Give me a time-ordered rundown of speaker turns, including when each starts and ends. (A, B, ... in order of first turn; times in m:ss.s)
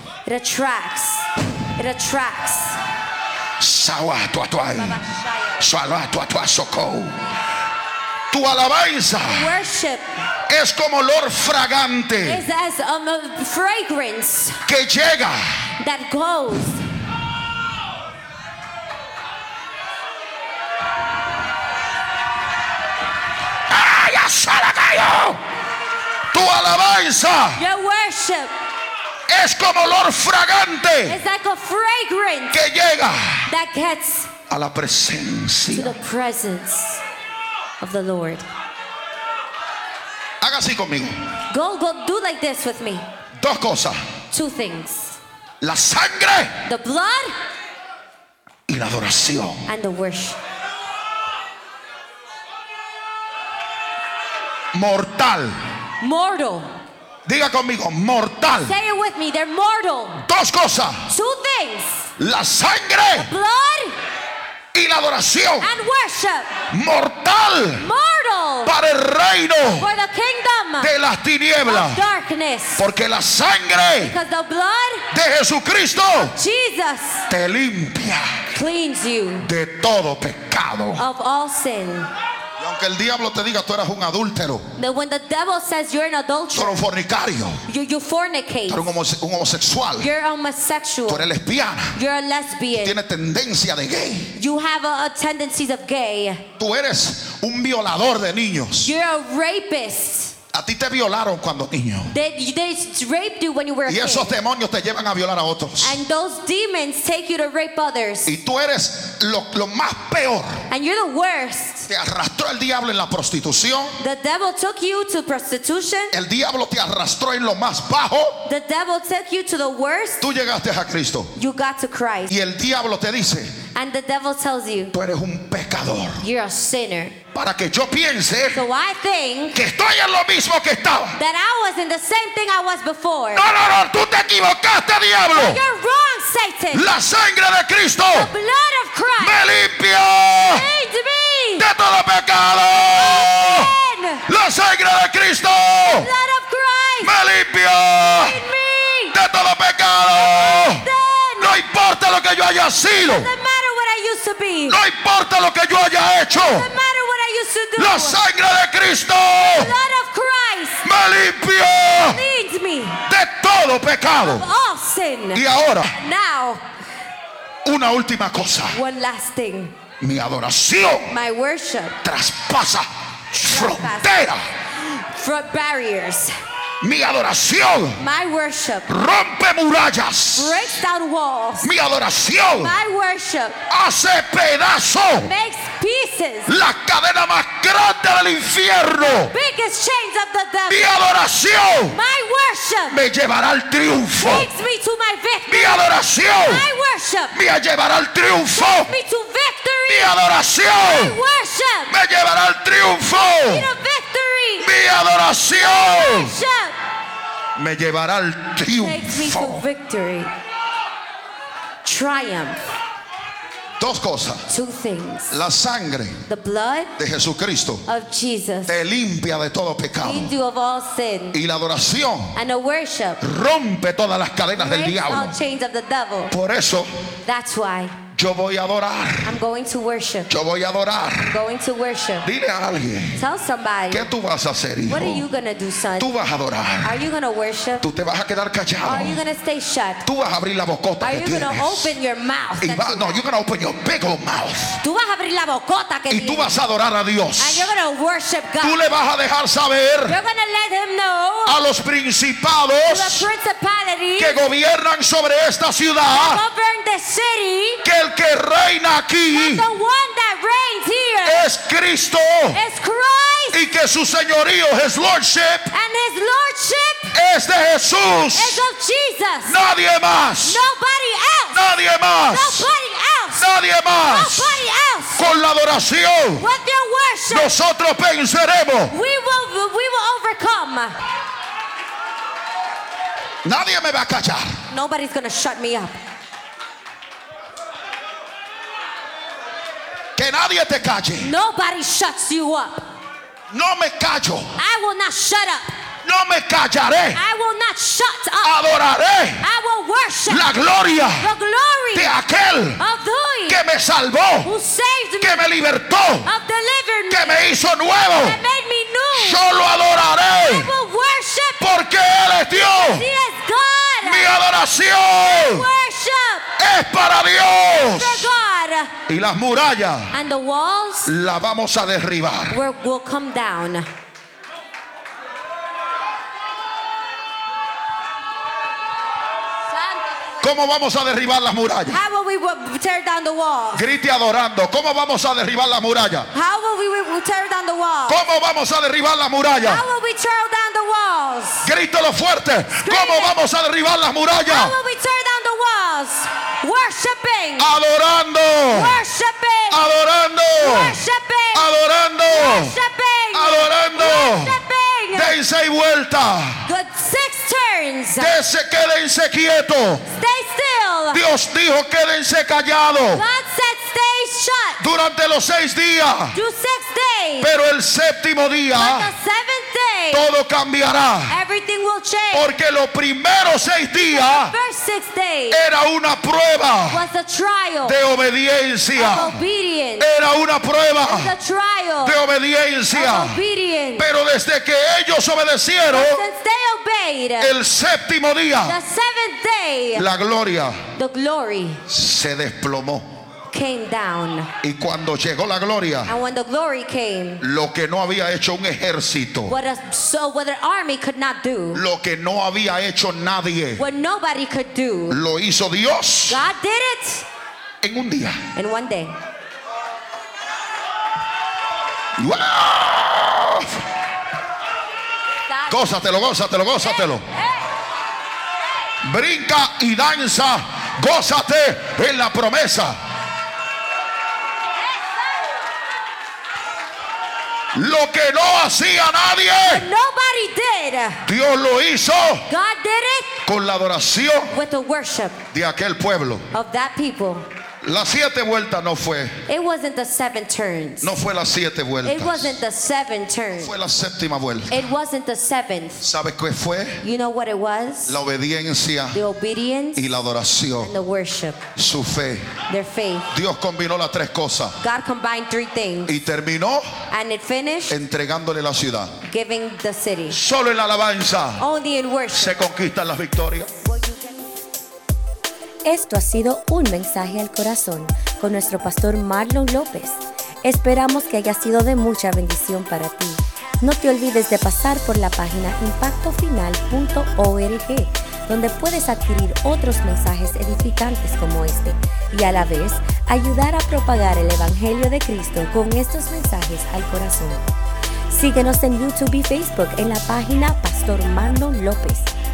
0:00.2-0:02.8 A
0:03.6-0:05.0 B
0:04.8-0:05.7 A
0:05.6-0:07.2 B
0:08.3-0:09.5 B
0:09.3-0:10.1 A
0:10.5-0:12.4 B
0:12.2-0:14.6 A
0:14.6-0:15.5 B
0:15.8-0:16.8 A
0:23.7-0:25.4 B
0:26.3-0:27.6 B
0:27.6-0:28.5 A
0:29.3-0:31.2 B
0:31.0-0:32.6 A
0:32.5-0:33.5 B
0:33.5-0:34.3 A
0:34.5-0:35.9 B
0:35.7-0:37.0 A
0:37.8-0:38.4 A
0:40.4-0:41.1 B
0:41.5-0:43.0 A
0:43.4-0:44.0 B
0:44.3-0:45.2 A
0:45.6-0:46.6 B
0:46.6-0:47.3 A
0:48.7-0:49.6 B
0:49.7-0:50.4 A
0:54.7-0:55.6 B
0:56.0-0:56.7 A
0:57.2-0:58.7 B
0:58.6-1:00.2 A
1:00.2-1:01.0 B
1:01.1-1:02.1 A
1:02.2-1:03.3 B
1:03.1-1:03.9 A
1:04.7-1:05.7 B
1:05.6-1:06.5 A
1:06.7-1:07.8 B
1:07.8-1:08.7 A
1:08.6-1:09.9 B
1:09.8-1:10.9 A
1:10.8-1:12.0 B
1:11.6-1:12.8 A
1:12.8-1:14.2 B
1:14.0-1:15.0 A
1:15.1-1:16.3 B
1:16.2-1:17.2 A
1:17.3-1:18.4 B
1:18.5-1:19.5 A
1:19.4-1:21.0 B
1:21.0-1:22.1 A
1:22.6-1:24.6 B
1:24.8-1:26.8 A
1:26.5-1:27.6 B
1:27.7-1:28.9 A
1:28.7-1:30.1 B
1:30.0-1:31.3 A
1:31.1-1:32.0 B
1:31.9-1:33.0 A
1:32.8-1:34.3 B
1:34.4-1:36.4 A
1:36.6-1:38.9 B
1:38.8-1:40.3 A
1:40.5-1:42.1 B
1:42.1-1:44.3 A
1:43.8-1:46.0 B
1:45.8-1:48.3 A
1:48.2-1:50.6 B
1:50.7-1:51.9 A
1:51.9-1:54.0 B
1:54.0-1:56.1 A
1:56.1-1:58.4 B
1:58.4-2:00.2 A
2:00.2-2:01.3 B
2:01.4-2:02.3 A
2:02.3-2:03.6 B
2:03.7-2:04.9 A
2:04.9-2:06.2 B
2:06.2-2:07.2 A
2:07.3-2:08.6 B
2:08.5-2:09.6 A
2:09.5-2:11.2 B
2:11.2-2:13.4 A
2:13.3-2:15.6 B
2:15.3-2:16.8 A
2:16.7-2:18.3 B
2:18.1-2:19.4 A
2:19.2-2:20.6 B
2:20.4-2:21.7 A
2:21.6-2:23.7 B
2:22.9-2:24.2 A
2:24.2-2:26.1 B
2:25.8-2:27.1 A
2:27.0-2:28.4 B
2:28.0-2:29.1 A
2:29.1-2:30.9 B
2:30.1-2:31.6 A
2:31.4-2:33.3 B
2:33.0-2:34.8 A
2:34.7-2:36.7 B
2:36.3-2:38.2 A
2:37.8-2:39.7 B
2:39.4-2:40.8 A
2:40.8-2:42.2 B
2:42.0-2:43.0 A
2:43.1-2:44.4 B
2:44.2-2:46.6 A
2:45.3-2:46.0 B
2:47.6-2:48.8 B
2:48.7-2:49.7 A
2:50.0-2:51.1 B
2:51.1-2:52.0 A
2:52.0-2:54.4 B
2:53.4-2:56.3 A
2:56.8-2:58.0 B
2:58.0-2:58.9 A
2:58.9-3:00.7 B
3:00.3-3:01.6 A
3:01.6-3:02.7 B
3:02.6-3:03.6 A
3:03.7-3:05.3 B
3:05.2-3:06.5 A
3:06.5-3:09.3 B
3:09.0-3:10.9 A
3:10.7-3:12.0 B
3:11.9-3:13.0 A
3:12.9-3:14.5 B
3:14.2-3:17.3 A
3:15.5-3:16.6 B
3:17.3-3:18.9 B
3:18.5-3:20.1 A
3:19.8-3:21.2 B
3:20.7-3:21.9 A
3:21.9-3:23.7 B
3:23.1-3:24.7 A
3:24.6-3:26.4 B
3:25.6-3:26.8 A
3:27.6-3:29.6 B
3:28.8-3:30.3 A
3:31.8-3:32.6 A
3:33.8-3:34.4 B
3:34.5-3:35.4 A
3:35.3-3:36.2 B
3:36.3-3:36.9 A
3:37.0-3:37.8 B
3:37.9-3:38.8 A
3:38.7-3:40.3 B
3:40.0-3:41.4 A
3:41.3-3:42.4 B
3:42.3-3:43.2 A
3:43.2-3:45.4 B
3:44.6-3:46.3 A
3:46.3-3:46.9 B
3:47.2-3:48.0 A
3:48.1-3:49.3 B
3:49.2-3:50.3 A
3:50.3-3:51.4 B
3:51.2-3:52.3 A
3:52.2-3:53.2 B
3:53.2-3:54.1 A
3:53.9-3:55.2 B
3:54.9-3:56.1 A
3:56.0-3:57.0 B
3:56.8-3:57.8 A
3:57.8-3:59.2 B
3:58.8-4:00.0 A
4:00.0-4:01.9 B
4:01.0-4:03.2 A
4:02.6-4:04.8 B
4:04.8-4:06.6 A
4:06.1-4:07.7 B
4:07.4-4:08.9 A
4:08.6-4:10.2 B
4:10.1-4:11.6 A
4:11.4-4:13.3 B
4:12.9-4:14.4 A
4:14.2-4:16.4 B
4:16.1-4:17.8 A
4:17.8-4:19.6 B
4:19.3-4:21.4 A
4:21.2-4:22.6 B
4:22.5-4:23.6 A
4:23.5-4:25.7 B
4:25.7-4:27.1 A
4:27.1-4:28.6 B
4:28.3-4:29.6 A
4:29.4-4:30.6 B
4:30.4-4:31.6 A
4:31.5-4:32.7 B
4:32.3-4:33.5 A
4:33.4-4:34.6 B
4:34.0-4:35.2 A
4:35.2-4:36.5 B
4:36.4-4:37.5 A
4:37.3-4:38.9 B
4:38.9-4:41.0 A
4:43.4-4:44.6 B
4:44.7-4:45.9 A
4:50.2-4:51.3 B
4:51.2-4:52.9 A
4:53.5-4:54.5 B
4:54.6-4:55.7 A
4:56.0-4:57.2 B
4:57.1-4:58.6 A
4:58.4-4:59.4 B
4:59.4-5:00.5 A
5:00.3-5:01.3 B
5:01.2-5:02.1 A
5:01.9-5:02.8 B
5:02.8-5:03.6 A
5:03.5-5:04.5 B
5:04.4-5:05.5 A
5:05.2-5:06.3 B
5:06.2-5:07.4 A
5:07.1-5:08.4 B
5:08.0-5:11.8 A
5:09.1-5:10.7 B
5:11.6-5:13.1 B
5:12.5-5:14.4 A
5:14.0-5:15.7 B
5:15.2-5:16.5 A
5:16.6-5:18.3 B
5:17.4-5:18.9 A
5:19.1-5:20.1 B
5:20.1-5:21.1 A
5:21.0-5:22.6 B
5:22.5-5:23.9 A
5:29.7-5:30.4 A
5:30.4-5:32.0 B
5:31.9-5:33.8 A
5:33.7-5:36.3 B
5:36.3-5:38.2 A
5:38.1-5:39.8 B
5:39.6-5:41.7 A
5:41.6-5:44.8 B
5:42.8-5:43.3 A
5:44.4-5:47.7 A
5:47.6-5:49.0 B
5:48.7-5:49.8 A
5:49.7-5:51.0 B
5:50.6-5:51.7 A
5:51.5-5:52.8 B
5:52.3-5:55.3 A
5:53.3-5:54.6 B
5:55.1-5:56.6 B
5:56.6-5:58.3 A
5:58.2-6:00.0 B
6:00.1-6:01.2 A
6:01.1-6:03.2 B
6:03.1-6:04.8 A
6:04.8-6:06.4 B
6:06.3-6:07.5 A
6:07.4-6:09.1 B
6:08.7-6:10.2 A
6:10.1-6:11.4 B
6:11.3-6:12.5 A
6:12.3-6:14.5 B
6:13.9-6:15.6 A
6:15.5-6:17.0 B
6:16.9-6:18.0 A
6:17.8-6:19.4 B
6:18.9-6:20.1 A
6:20.0-6:21.3 B
6:21.0-6:22.2 A
6:22.0-6:23.4 B
6:22.9-6:24.1 A
6:24.0-6:26.2 B
6:25.9-6:27.5 A
6:27.4-6:28.8 B
6:28.6-6:30.0 A
6:29.9-6:30.8 B
6:31.0-6:31.8 A
6:31.9-6:33.0 B
6:33.5-6:34.5 A
6:34.6-6:36.1 B
6:36.1-6:37.4 A
6:37.4-6:39.5 B
6:39.5-6:41.8 A
6:41.7-6:43.8 B
6:43.8-6:45.2 A
6:45.1-6:46.4 B
6:46.3-6:47.2 A
6:47.8-6:48.4 B
6:48.5-6:49.1 A
6:52.2-6:53.7 B
6:55.5-6:56.0 A
6:55.7-6:57.2 B
6:56.8-6:57.4 A
6:59.0-7:03.0 B
7:07.7-7:09.9 B
7:09.6-7:11.2 A
7:11.2-7:12.5 B
7:12.5-7:13.4 A
7:13.4-7:14.5 B
7:14.5-7:15.4 A
7:15.5-7:16.5 B
7:16.5-7:17.5 A
7:17.8-7:19.4 B
7:19.5-7:21.1 A
7:21.0-7:22.6 B
7:22.0-7:23.7 A
7:23.6-7:24.8 B
7:24.7-7:26.0 A
7:26.0-7:27.0 B
7:27.0-7:28.2 A
7:28.0-7:29.2 B
7:29.1-7:30.0 A
7:29.9-7:30.9 B
7:30.8-7:31.6 A
7:31.8-7:32.6 B
7:32.7-7:33.3 A
7:33.3-7:34.8 B
7:34.8-7:36.2 A
7:36.0-7:37.0 B
7:37.1-7:38.0 A
7:37.9-7:39.2 B
7:39.2-7:40.4 A
7:40.3-7:41.6 B
7:41.6-7:42.5 A
7:42.3-7:43.7 B
7:43.8-7:44.5 A
7:45.8-8:07.7 C
8:08.3-8:12.3 C